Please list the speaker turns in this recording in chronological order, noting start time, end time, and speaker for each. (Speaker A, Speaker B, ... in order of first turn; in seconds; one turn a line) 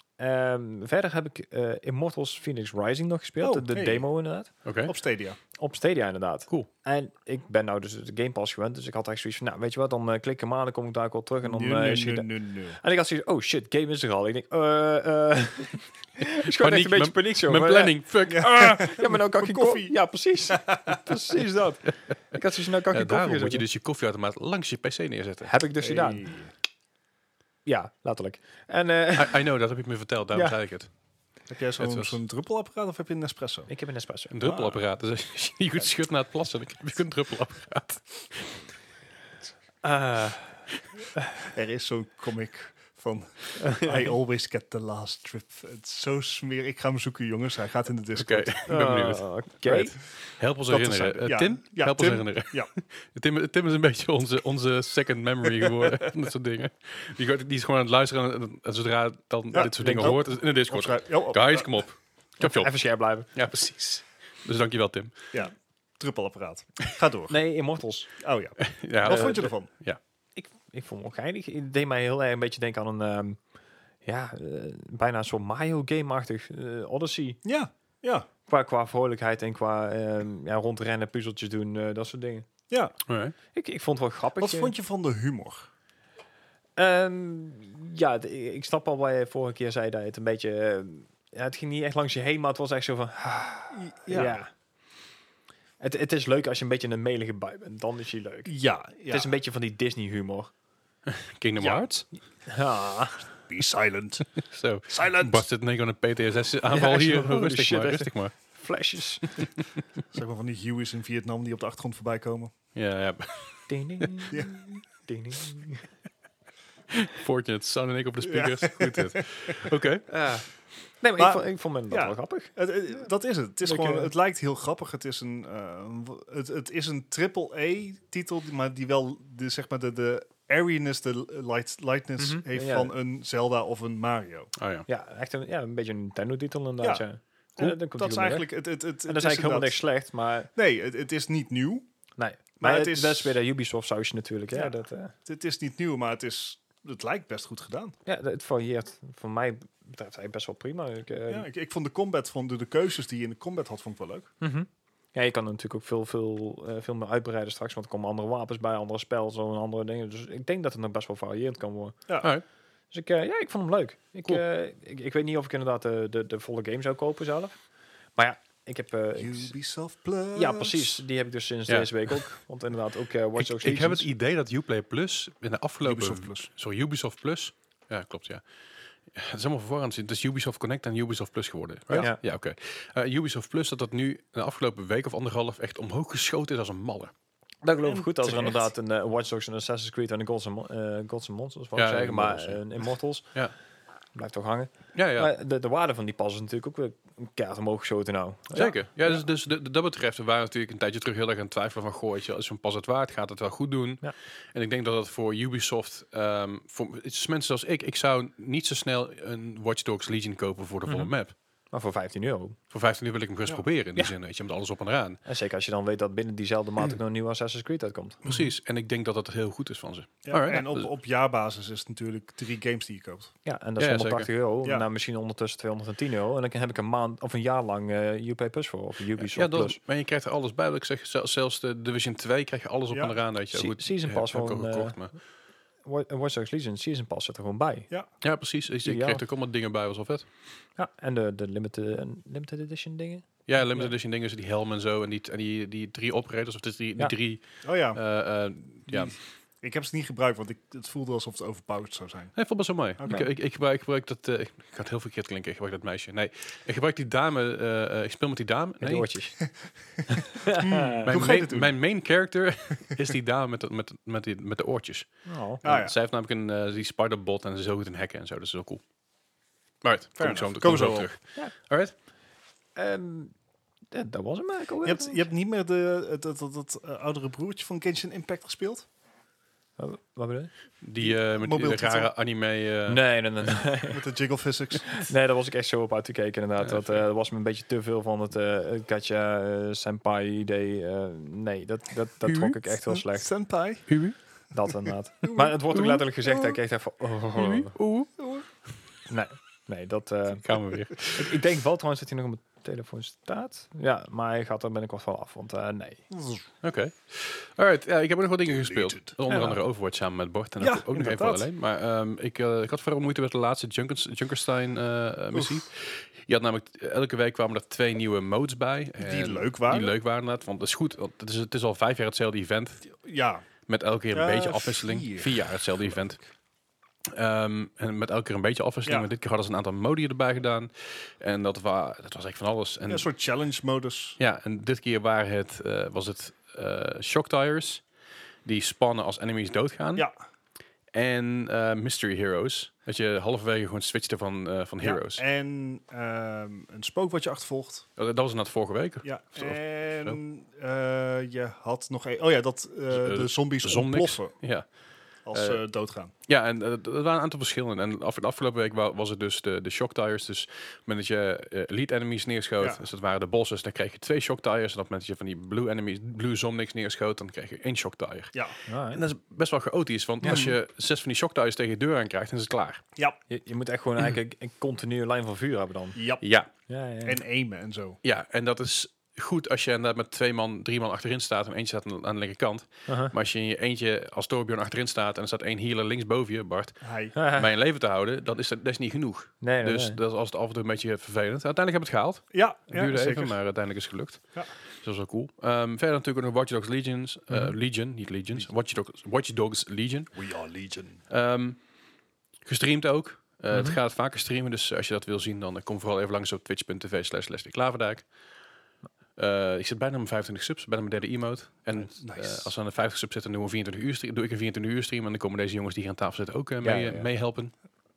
Speaker A: 0.2-4.5
Speaker B: 3.4-4.0
Speaker C: 4.6-4.9
Speaker B: 4.8-5.4
Speaker A: 5.6-23.6
Speaker B: 11.4-12.8
Speaker C: 16.4-18.8
Speaker B: 18.3-19.9
Speaker B: 20.5-21.0
Speaker C: 22.9-25.5
Speaker A: 25.4-26.3
Speaker B: 25.8-26.5
Speaker A: 27.6-29.5
Speaker C: 29.1-30.9
Speaker B: 31.5-33.7
Speaker C: 31.8-32.2
Speaker A: 33.7-34.3
Speaker C: 34.3-38.6
Speaker B: 34.4-34.8
Speaker A: 39.8-40.4
Speaker B: 41.5-48.5
Speaker C: 48.2-62.7
Speaker A: 48.7-50.0
Speaker B: 50.7-52.7
Speaker B: 59.5-61.7
Speaker A: 59.6-60.2
Speaker A: 62.4-63.3
Speaker C: 63.3-65.1
Speaker B: 65.3-67.3
Speaker A: 67.3-68.1
Speaker B: 68.2-69.7
Speaker C: 68.6-70.0
Speaker A: 69.0-69.5
Speaker A: 70.3-73.4
Speaker A: 74.0-77.4
Speaker B: 77.4-78.3
Speaker A: 78.5-82.5
Speaker C: 83.1-83.3
Speaker A: 83.5-84.7
Speaker B: 84.4-85.7
Speaker A: 86.8-94.5
Speaker B: 93.7-94.4
Speaker A: 95.8-98.5
Speaker B: 98.5-99.3
Speaker A: 99.1-100.5
Speaker C: 101.1-102.0
Speaker B: 101.6-101.8
Speaker A: 102.5-103.2
Speaker B: 103.4-104.3
Speaker C: 104.4-108.3
Speaker B: 104.9-105.4
Speaker A: 106.7-109.5
Speaker B: 110.1-112.5
Speaker C: 112.7-114.2
Speaker A: 113.7-115.9
Speaker C: 116.9-120.1
Speaker B: 118.2-119.6
Speaker A: 120.1-120.5
Speaker A: 121.0-122.5
Speaker B: 121.2-134.5
Speaker A: 123.6-124.1
Speaker A: 132.2-132.9
Speaker C: 134.6-134.9
Speaker A: 134.9-138.5
Speaker B: 137.6-139.8
Speaker A: 139.1-140.5
Speaker B: 140.5-141.9
Speaker A: 142.2-145.1
Speaker B: 142.6-143.4
Speaker B: 145.2-147.9
Speaker A: 148.1-151.5
Speaker B: 151.3-154.3
Speaker A: 154.4-162.0
Speaker A: 162.9-167.6
Speaker A: 168.2-169.5
Speaker B: 169.2-171.0
Speaker A: 170.3-174.1
Speaker C: 171.7-172.2
Speaker C: 173.4-178.4
Speaker B: 175.8-176.5
Speaker C: 179.1-187.1
Speaker A: 187.6-193.3
Speaker B: 187.8-188.6
Speaker C: 191.8-192.6
Speaker A: 194.1-199.2
Speaker C: 194.9-195.3
Speaker C: 198.5-211.3
Speaker A: 210.8-211.1
Speaker A: 211.7-212.6
Speaker C: 212.7-215.2
Speaker A: 215.2-218.2
Speaker C: 218.2-220.9
Speaker B: 220.2-223.3
Speaker A: 223.4-229.8
Speaker C: 223.8-224.3
Speaker C: 229.2-235.1
Speaker B: 232.9-233.2
Speaker A: 233.5-235.0
Speaker A: 235.8-237.9
Speaker C: 238.2-240.2
Speaker A: 238.8-239.2
Speaker A: 240.8-243.9
Speaker C: 243.5-249.1
Speaker B: 247.6-248.0
Speaker B: 248.9-252.3
Speaker C: 252.3-259.1
Speaker B: 253.0-253.2
Speaker A: 258.8-259.4
Speaker B: 259.4-261.7
Speaker A: 260.1-261.1
Speaker C: 261.1-265.1
Speaker A: 265.3-265.6
Speaker C: 265.6-268.8
Speaker B: 265.6-265.9
Speaker C: 269.8-271.9
Speaker B: 270.2-271.1
Speaker A: 272.7-273.3
Speaker A: 273.9-275.2
Speaker B: 274.8-278.9
Speaker A: 279.8-280.5
Speaker C: 280.8-283.0
Speaker B: 281.0-282.1
Speaker A: 282.9-284.0
Speaker B: 283.9-284.9
Speaker A: 284.9-293.3
Speaker C: 286.6-286.9
Speaker C: 292.2-292.6
Speaker B: 292.9-293.9
Speaker C: 293.9-294.2
Speaker A: 294.5-297.7
Speaker B: 295.2-295.5
Speaker C: 295.7-296.1
Speaker C: 297.3-298.2
Speaker B: 298.2-298.4
Speaker A: 299.1-300.4
Speaker C: 300.4-301.3
Speaker A: 301.1-306.0
Speaker B: 306.1-306.4
Speaker C: 306.6-322.8
Speaker B: 308.5-309.1
Speaker A: 309.3-309.6
Speaker B: 310.6-311.4
Speaker B: 315.3-315.6
Speaker B: 319.0-319.9
Speaker B: 322.9-323.4
Speaker C: 323.7-326.2
Speaker B: 324.1-326.0
Speaker C: 327.1-333.1
Speaker B: 332.9-334.2
Speaker C: 334.2-337.8
Speaker C: 338.4-340.1
Speaker C: 340.9-345.2
Speaker B: 344.8-347.9
Speaker C: 348.0-350.2
Speaker B: 349.0-354.3
Speaker C: 352.9-354.7
Speaker B: 355.2-356.1
Speaker C: 355.3-355.6
Speaker C: 356.2-368.3
Speaker A: 368.7-369.0
Speaker C: 368.9-372.8
Speaker A: 370.2-370.5
Speaker B: 370.2-370.5
Speaker A: 373.3-376.0
Speaker B: 375.9-376.2
Speaker C: 376.2-376.5
Speaker A: 376.7-377.2
Speaker B: 377.0-378.0
Speaker C: 378.0-400.1
Speaker A: 382.9-383.1
Speaker B: 386.8-387.1
Speaker A: 387.1-387.5
Speaker A: 389.4-390.0
Speaker B: 392.3-393.4
Speaker A: 397.3-397.5
Speaker B: 400.1-401.0
Speaker C: 401.1-401.6
Speaker C: 402.4-408.1
Speaker A: 403.5-403.8
Speaker C: 409.2-417.5
Speaker B: 411.7-412.5
Speaker A: 416.6-417.1